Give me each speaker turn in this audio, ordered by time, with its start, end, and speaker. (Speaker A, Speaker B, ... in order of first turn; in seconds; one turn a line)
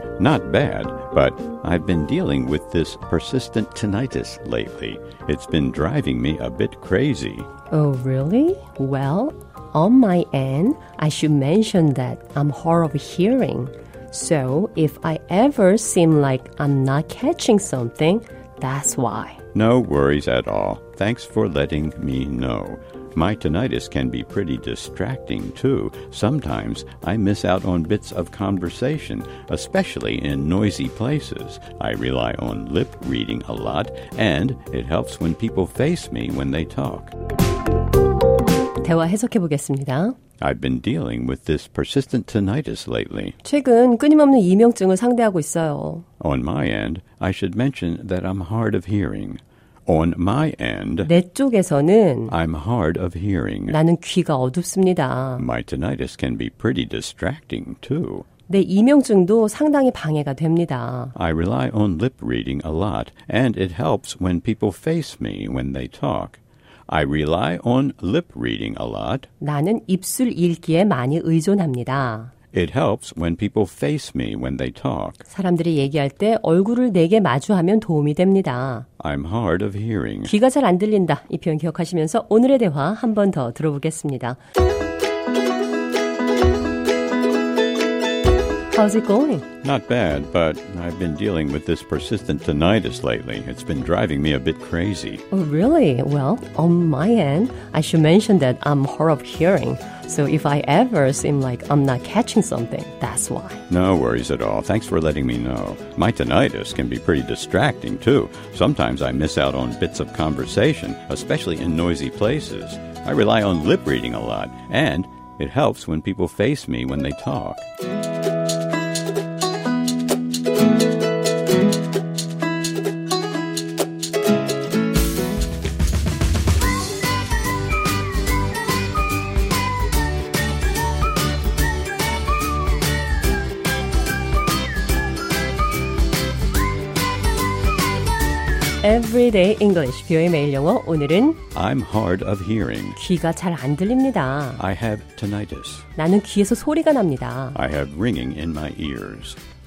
Speaker A: 0.2-7.5
Speaker B: 7.7-19.4
Speaker A: 19.5-37.1
Speaker B: 38.8-40.2
Speaker A: 40.4-43.4
Speaker B: 43.4-46.0
Speaker A: 46.2-51.1
Speaker B: 51.0-52.4
Speaker A: 52.3-53.8
Speaker B: 53.7-55.5
Speaker A: 55.4-58.3
Speaker B: 58.5-61.1
Speaker A: 61.1-69.3
Speaker B: 69.4-72.3
Speaker A: 72.5-75.2
Speaker B: 75.3-78.9
Speaker A: 79.0-80.3
Speaker B: 80.2-84.4
Speaker B: 88.8-89.5
Speaker A: 89.6-95.2
Speaker B: 95.3-103.6
Speaker A: 103.7-117.7
Speaker B: 138.8-141.4
Speaker A: 141.5-143.0
Speaker B: 143.0-144.6
Speaker A: 144.6-145.9
Speaker B: 146.0-147.6
Speaker A: 147.6-149.4